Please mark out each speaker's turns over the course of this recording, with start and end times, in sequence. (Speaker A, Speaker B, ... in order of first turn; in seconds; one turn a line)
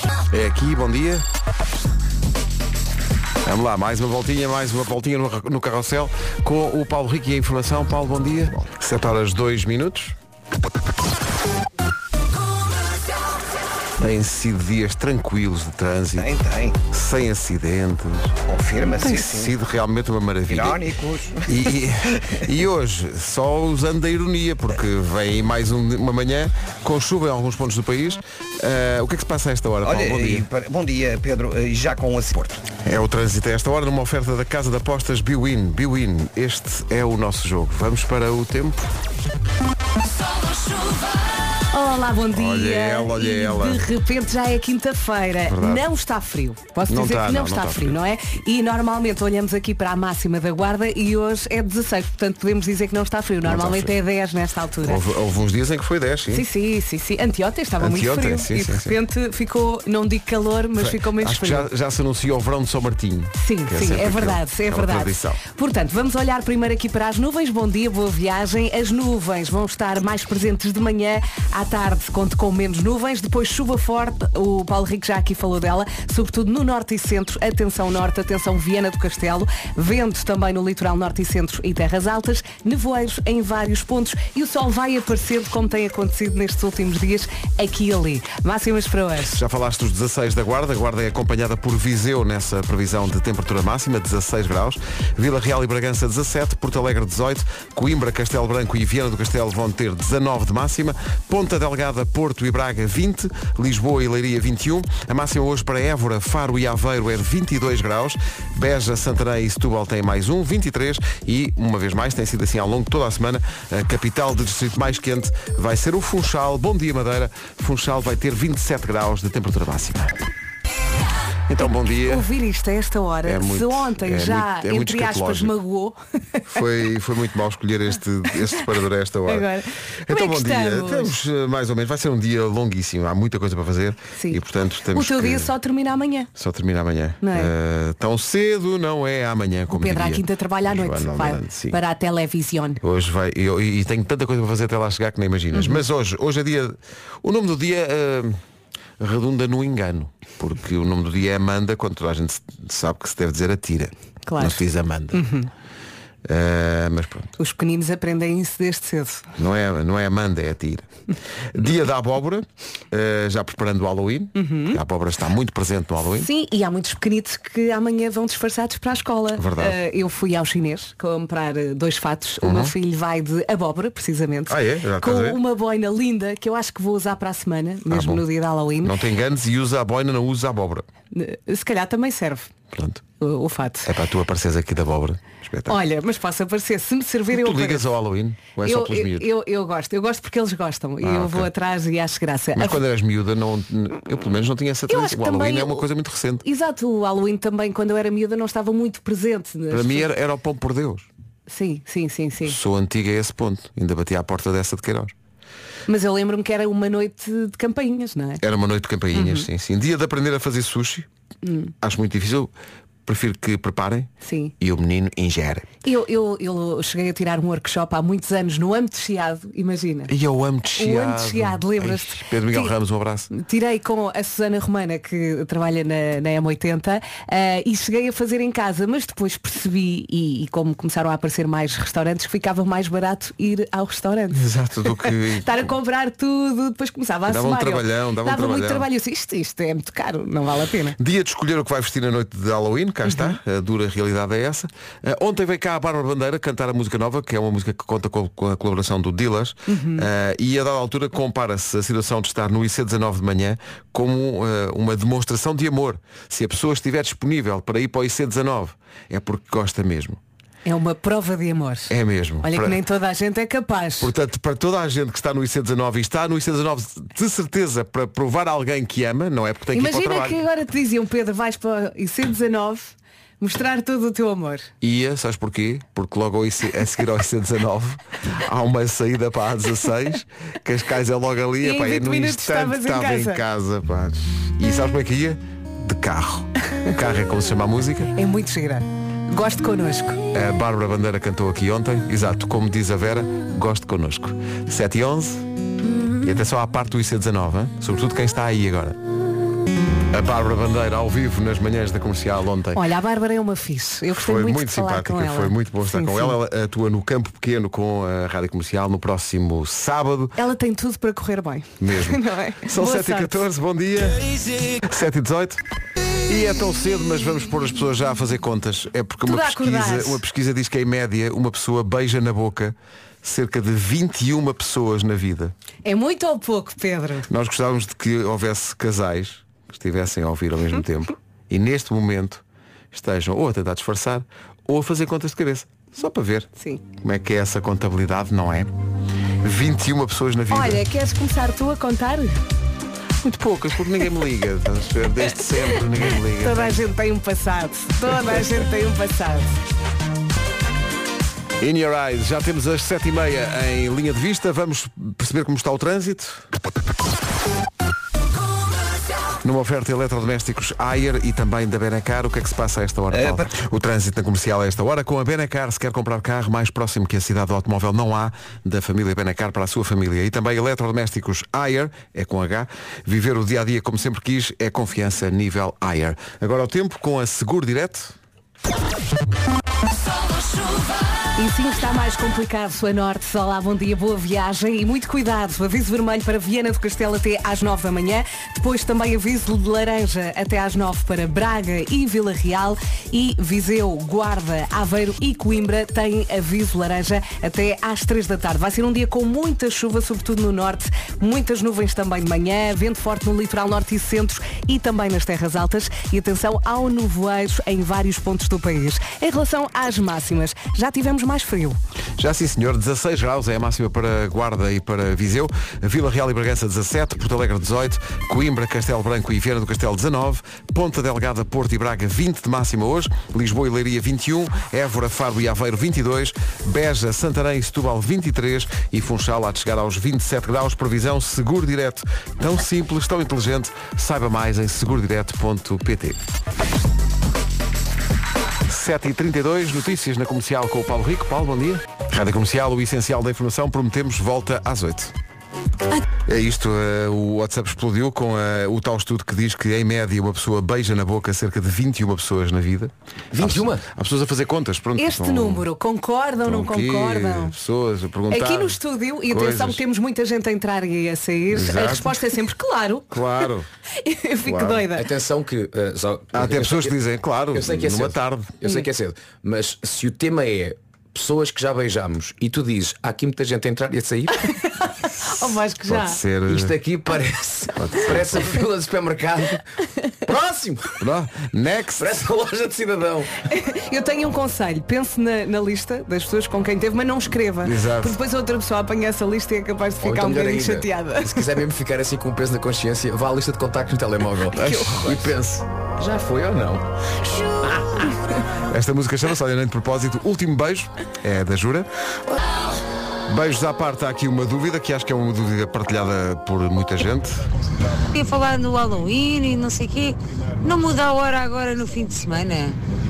Speaker A: 0.3-1.2
Speaker A: 3.4-10.2
Speaker A: 14.0-16.3
Speaker B: 16.2-16.8
Speaker A: 16.9-18.4
Speaker B: 18.5-19.5
Speaker A: 19.0-20.8
Speaker B: 20.5-21.5
Speaker A: 21.5-30.5
Speaker B: 29.8-32.7
Speaker A: 32.8-38.9
Speaker C: 41.7-55.0
Speaker A: 42.3-43.9
Speaker A: 45.5-45.9
Speaker A: 46.9-48.0
Speaker A: 53.4-54.0
Speaker A: 54.8-56.5
Speaker C: 56.3-61.7
Speaker A: 57.8-59.0
Speaker A: 60.8-65.4
Speaker C: 63.4-89.4
Speaker A: 89.2-120.2
Speaker A: 121.5-122.3
Speaker C: 122.0-126.0
Speaker A: 123.2-125.5
Speaker A: 126.5-129.5
Speaker C: 129.3-131.2
Speaker A: 130.1-135.5
Speaker C: 134.9-136.3
Speaker A: 136.3-141.8
Speaker C: 137.2-137.5
Speaker C: 139.7-142.8
Speaker A: 142.8-148.4
Speaker C: 145.5-145.8
Speaker A: 149.0-155.3
Speaker C: 154.3-154.6
Speaker C: 155.1-155.5
Speaker A: 156.2-157.4
Speaker C: 157.4-159.3
Speaker A: 159.4-160.9
Speaker A: 161.5-166.3
Speaker C: 164.4-164.8
Speaker C: 166.2-178.9
Speaker A: 169.3-169.8
Speaker A: 172.4-172.8
Speaker A: 174.5-175.4
Speaker A: 177.9-178.2
Speaker A: 178.8-180.9
Speaker C: 181.1-182.5
Speaker A: 182.7-183.0
Speaker C: 183.2-183.9
Speaker A: 183.8-185.8
Speaker C: 185.7-187.8
Speaker A: 187.3-189.3
Speaker C: 188.6-192.8
Speaker A: 191.0-191.5
Speaker A: 192.6-196.4
Speaker C: 194.9-195.8
Speaker C: 196.4-200.1
Speaker A: 199.7-201.1
Speaker C: 201.5-202.6
Speaker A: 202.4-205.1
Speaker C: 205.9-208.4
Speaker A: 208.4-211.1
Speaker C: 209.1-209.5
Speaker C: 211.4-211.7
Speaker A: 211.8-212.5
Speaker A: 213.1-215.7
Speaker C: 214.2-214.5
Speaker C: 215.8-220.1
Speaker A: 220.1-223.3
Speaker C: 220.8-222.7
Speaker C: 223.3-241.0
Speaker A: 234.3-235.7
Speaker A: 237.3-238.9
Speaker A: 241.0-260.2
Speaker C: 243.1-243.4
Speaker C: 249.7-250.1
Speaker C: 260.7-264.1
Speaker A: 261.9-262.8
Speaker A: 264.0-270.4
Speaker C: 269.7-274.7
Speaker A: 274.8-288.1
Speaker C: 281.6-283.4
Speaker C: 288.1-290.2
Speaker A: 290.3-295.5
Speaker A: 296.2-299.0
Speaker A: 300.1-302.8
Speaker C: 302.8-306.4
Speaker A: 304.1-310.4
Speaker C: 310.4-313.4
Speaker A: 311.8-315.6
Speaker A: 316.3-325.5
Speaker C: 319.2-320.2
Speaker C: 325.9-327.3
Speaker A: 327.3-338.7
Speaker C: 336.6-336.8
Speaker A: 339.4-340.8
Speaker C: 340.5-342.4
Speaker A: 343.2-346.8
Speaker C: 346.4-349.6
Speaker A: 351.6-356.4
Speaker A: 359.4-378.1
Speaker B: 363.1-363.5
Speaker C: 381.4-411.8
Speaker A: 412.2-436.2
Speaker A: 438.7-445.1
Speaker A: 446.2-455.7
Speaker D: 453.3-453.8
Speaker C: 455.0-457.6
Speaker A: 456.4-459.8
Speaker C: 458.3-463.4
Speaker A: 461.5-462.3
Speaker A: 463.1-463.7
Speaker C: 464.0-465.1
Speaker A: 464.4-464.9
Speaker D: 464.9-466.9
Speaker A: 466.3-468.6
Speaker D: 467.5-474.5
Speaker C: 474.5-476.2
Speaker A: 475.9-476.8
Speaker D: 476.5-479.6
Speaker A: 477.8-478.5
Speaker D: 480.2-481.0
Speaker A: 481.0-482.3
Speaker D: 482.0-483.3
Speaker C: 483.5-491.4
Speaker A: 487.6-488.2
Speaker D: 490.0-495.4
Speaker A: 494.5-495.6
Speaker C: 494.6-495.1
Speaker D: 496.0-496.9
Speaker D: 497.4-498.1
Speaker A: 498.7-501.9
Speaker A: 503.3-507.5
Speaker E: 508.1-512.8